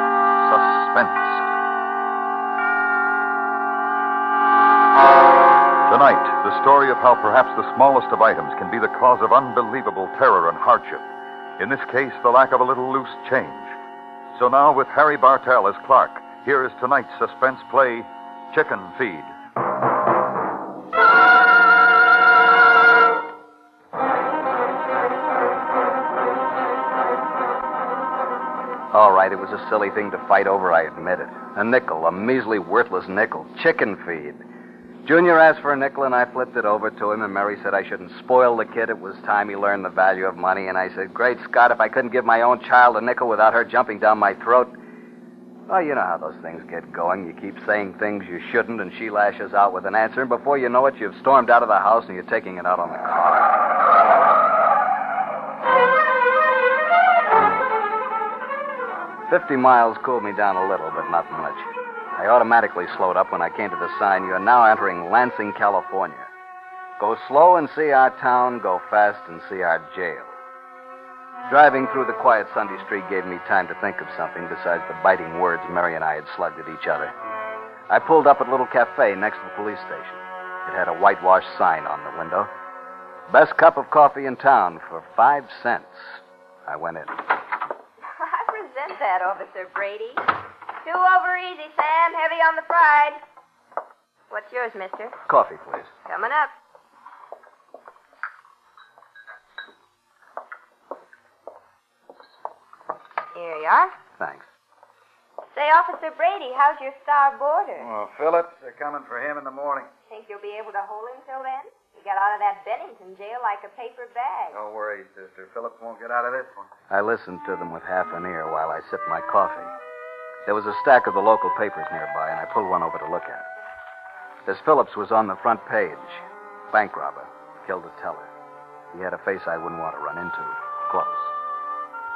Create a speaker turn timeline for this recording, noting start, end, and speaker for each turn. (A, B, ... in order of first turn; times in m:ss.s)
0:00.4-0:01.4 A
0:05.9-0:11.1 A
0:11.6-0:13.8 A
0:14.4-0:19.3 A
0:28.9-0:34.4 B
0:35.0-0:44.8 B
0:45.7-0:53.6 B
0:59.3-1:06.3 B
1:07.0-1:10.4 B
1:11.5-1:17.1 B
1:17.9-1:22.5 B
1:23.3-1:27.2 B
1:28.2-1:30.3 C
1:30.8-1:33.2 C
1:34.3-1:35.2 C
1:35.3-1:35.9 B
1:36.1-1:36.5 C
1:43.4-1:43.9 C
1:44.2-1:44.5 B
1:45.5-1:47.9 C
1:47.8-1:49.9 D
1:50.1-1:54.6 C
1:54.5-1:56.7 D
1:56.9-1:59.7 B
2:00.5-2:03.5 B
2:04.5-2:08.3 B
2:08.9-2:11.3 B